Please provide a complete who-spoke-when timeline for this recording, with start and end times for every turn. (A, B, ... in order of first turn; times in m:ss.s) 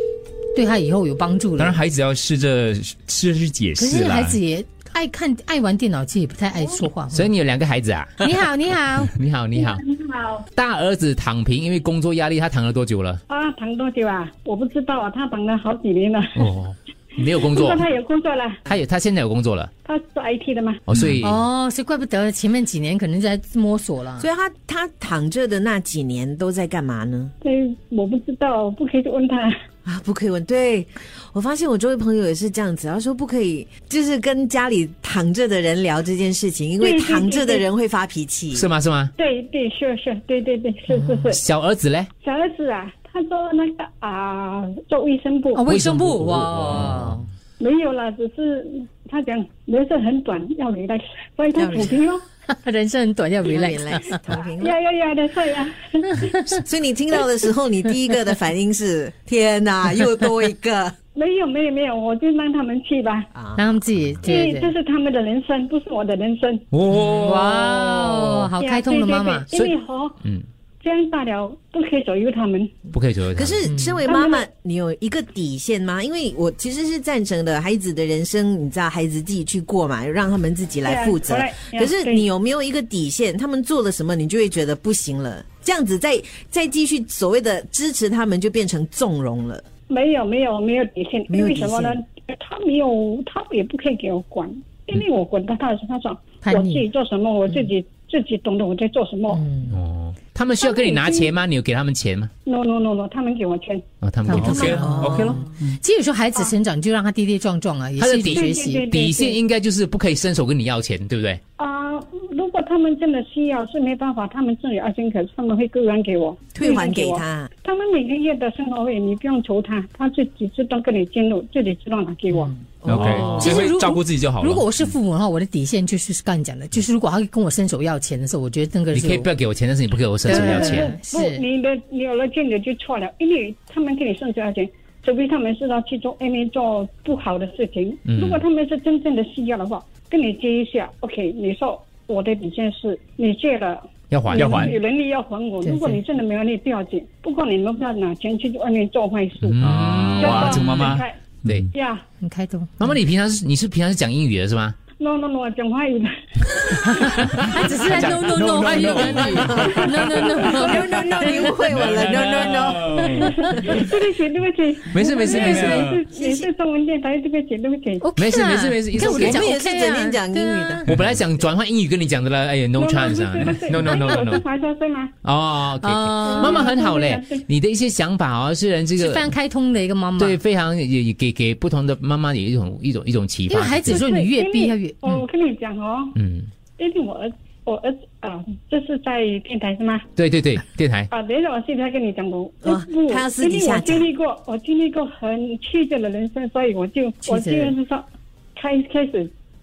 0:00.5-0:01.8 A
0:01.6-0:04.4 B
0:03.8-0:07.3 A
0:07.1-0:08.3 C
0:08.2-0:09.2 A
0:09.0-0:09.8 C
0:09.8-0:10.4 D
0:10.5-0:13.2 C
0:13.3-0:16.4 D
0:16.4-0:17.8 C
0:17.4-0:18.6 D
0:18.7-0:19.7 C
0:19.8-0:20.8 D
0:20.9-0:21.4 C
0:21.2-0:24.3 A
0:24.2-0:27.3 E
0:27.4-0:29.5 D
0:29.8-0:38.7 E
0:36.8-0:37.6 D
0:38.5-0:39.1 C
0:39.2-0:41.4 D
0:40.9-0:41.2 A
0:41.2-0:42.1 C
0:42.2-0:45.6 D
0:45.5-0:47.2 A
0:45.6-0:47.2 C
0:47.6-0:52.2 D
0:51.6-0:52.0 E
0:52.5-0:54.3 A
0:53.5-0:54.8 E
0:54.4-0:56.4 D
0:56.2-0:56.6 A
0:56.4-1:01.0 E
1:01.2-1:03.3 D
1:03.4-1:03.7 E
1:03.6-1:04.7 A
1:04.2-1:06.6 D
1:06.7-1:08.5 C
1:06.9-1:09.5 A
1:08.6-1:10.2 D
1:09.5-1:10.5 C
1:10.8-1:12.7 D
1:12.9-1:13.6 C
1:13.4-1:29.6 E
1:13.6-1:14.1 A
1:14.0-1:14.5 D
1:20.8-1:22.3 D
1:29.9-1:39.4 D
1:31.3-1:32.0 E
1:36.4-1:36.9 A
1:39.3-1:39.8 A
1:39.7-1:42.3 C
1:40.6-1:41.3 D
1:42.5-1:43.8 D
1:44.0-1:45.4 C
1:44.3-1:48.8 A
1:44.3-1:45.8 B
1:48.0-1:51.4 C
1:48.3-1:49.4 D
1:51.6-2:02.5 D
1:56.5-1:57.5 E
2:02.3-2:02.6 A
2:02.8-2:03.4 E
2:02.9-2:04.7 B
2:03.0-2:03.6 C
2:03.2-2:09.3 A
2:08.9-2:10.9 C
2:10.2-2:11.4 A
2:10.3-2:29.6 D
2:18.1-2:18.4 C
2:24.1-2:24.6 C
2:24.3-2:24.8 B
2:25.6-2:26.0 A
2:29.4-2:30.6 C
2:29.6-2:31.7 B
2:30.2-2:31.2 D
2:31.7-2:32.0 D
2:32.2-2:33.0 A
2:32.8-2:34.8 C
2:35.0-2:37.1 D
2:36.8-2:41.6 A
2:37.2-2:40.3 B
2:39.5-2:41.5 D
2:40.4-2:43.1 E
2:40.9-2:43.9 B
2:43.0-2:43.6 A
2:43.2-2:48.1 D
2:44.9-2:45.8 C
2:45.0-2:46.0 B
2:46.1-2:46.4 E
2:48.0-2:51.0 A
2:48.2-2:49.4 C
2:49.0-2:50.8 E
2:50.9-2:51.2 B
2:50.9-2:54.4 C
2:52.8-2:55.1 D
2:55.2-2:59.4 C
2:55.8-2:56.8 A
2:56.2-2:57.4 D
2:59.0-3:00.4 A
3:00.2-3:04.0 C
3:03.5-3:05.2 A
3:03.9-3:06.2 D
3:06.2-3:06.5 C
3:06.8-3:10.0 D
3:10.2-3:11.1 C
3:11.1-3:18.0 D
3:12.6-3:14.1 E
3:17.2-3:17.8 A
3:18.6-3:19.3 D